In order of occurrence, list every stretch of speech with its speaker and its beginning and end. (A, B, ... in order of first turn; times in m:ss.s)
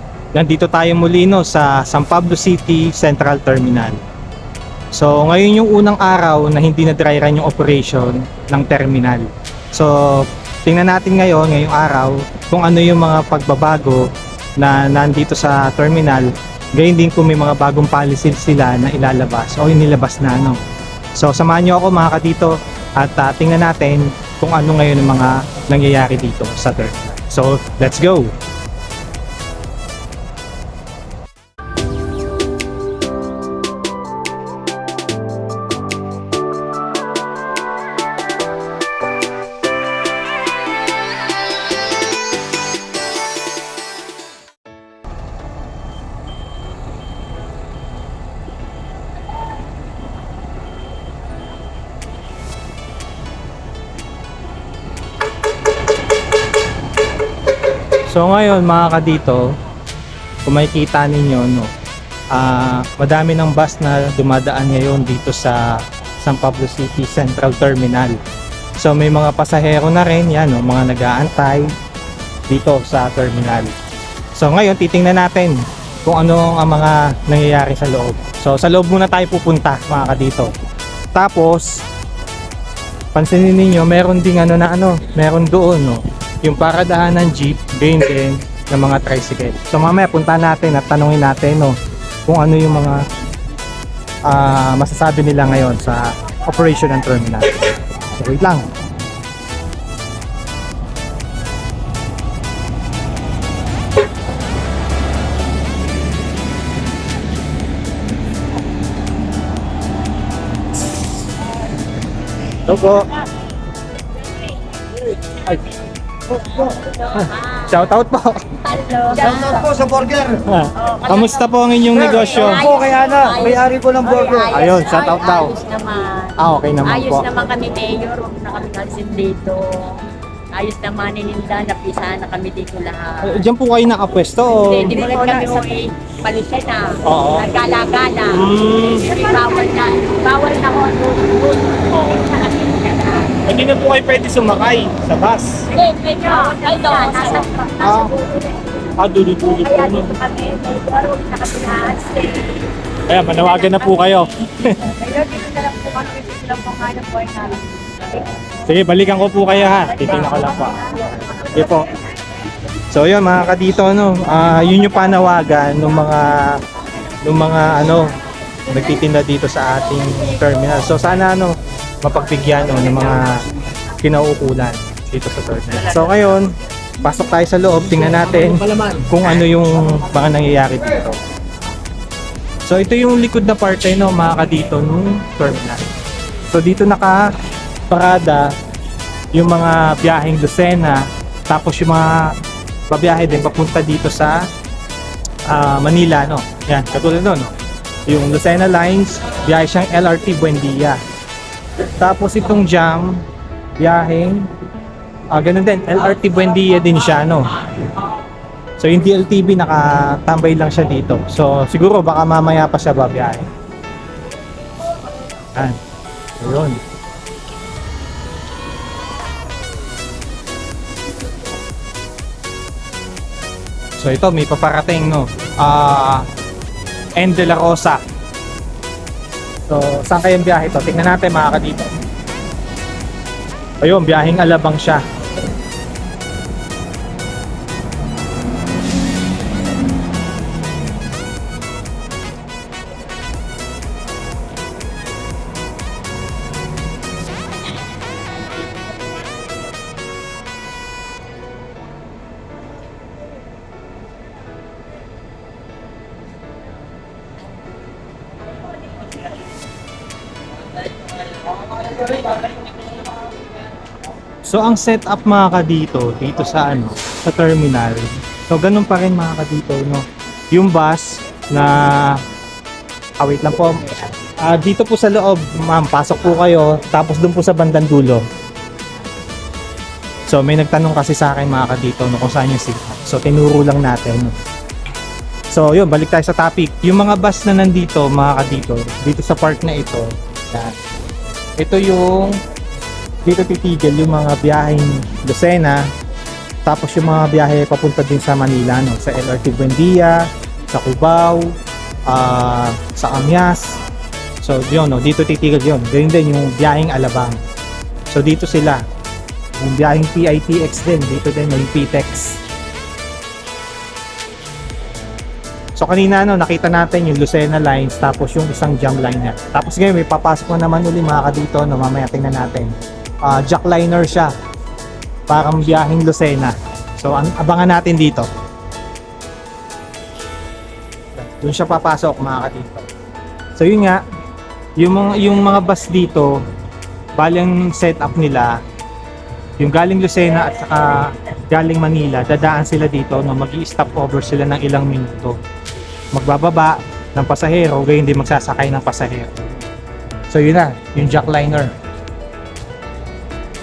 0:00.3-0:04.0 A
0:04.9-0:14.0 A
0:14.6-0:20.6 A
0:21.2-0:28.3 A
0:58.1-0:59.4 A
1:00.4-1:01.7 A
1:02.3-1:08.2 A
1:08.8-1:11.7 A
1:12.5-1:13.7 A
1:14.4-1:20.5 A
1:21.1-1:21.8 A
1:23.1-1:31.8 A
1:32.3-1:33.0 A
1:34.3-1:38.7 A
1:52.7-1:53.1 A
1:56.3-1:56.8 B
1:57.0-1:57.8 C
1:57.1-1:58.4 A
1:58.6-1:59.7 C
1:59.1-2:00.4 B
2:00.5-2:02.7 A
2:00.8-2:01.5 C
2:01.9-2:04.6 B
2:02.0-2:10.0 C
2:04.5-2:05.5 A
2:06.4-2:07.3 A
2:10.5-2:13.4 C
2:13.2-2:15.6 A
2:14.6-2:23.3 C
2:17.0-2:17.5 A
2:18.3-2:19.1 A
2:23.4-2:25.7 A
2:25.7-2:28.5 C
2:27.2-2:28.2 A
2:29.0-2:30.1 A
2:29.6-2:32.5 C
2:33.1-2:34.8 A
2:33.6-2:33.9 C
2:34.9-2:37.7 C
2:38.6-2:41.9 A
2:40.0-2:41.0 C
2:42.9-2:46.6 A
2:47.2-2:48.1 A
2:48.7-2:53.4 A
2:54.0-3:01.2 A
2:58.1-2:59.0 B
3:02.7-3:05.8 A
3:06.5-3:07.3 A
3:07.9-3:08.5 A
3:09.3-3:12.3 A
3:12.9-3:14.5 A
3:15.5-3:17.5 A
3:18.1-3:21.0 A
3:22.0-3:23.2 A
3:23.8-3:24.5 A
3:25.3-3:27.5 A
3:28.8-3:33.5 A
3:36.4-3:36.8 A
3:44.0-3:46.2 A
3:47.2-3:48.0 A
3:49.7-3:51.9 A
3:53.8-3:55.0 A
4:24.4-4:32.2 A
4:33.2-4:38.2 A
4:40.3-4:44.4 A
4:45.5-4:50.7 A
4:51.6-4:52.4 A
4:53.2-4:55.8 A
4:56.6-5:01.5 A
5:02.1-5:03.8 A
5:04.4-5:07.4 A
5:08.1-5:08.8 A
5:09.6-5:12.4 A
5:15.8-5:24.3 A
5:25.3-5:28.3 A
5:31.2-5:32.9 A
5:33.6-5:34.0 A
5:34.8-5:36.4 A
5:37.2-5:38.6 A
5:39.6-5:45.4 A
5:46.1-5:49.6 A
5:50.3-5:51.7 A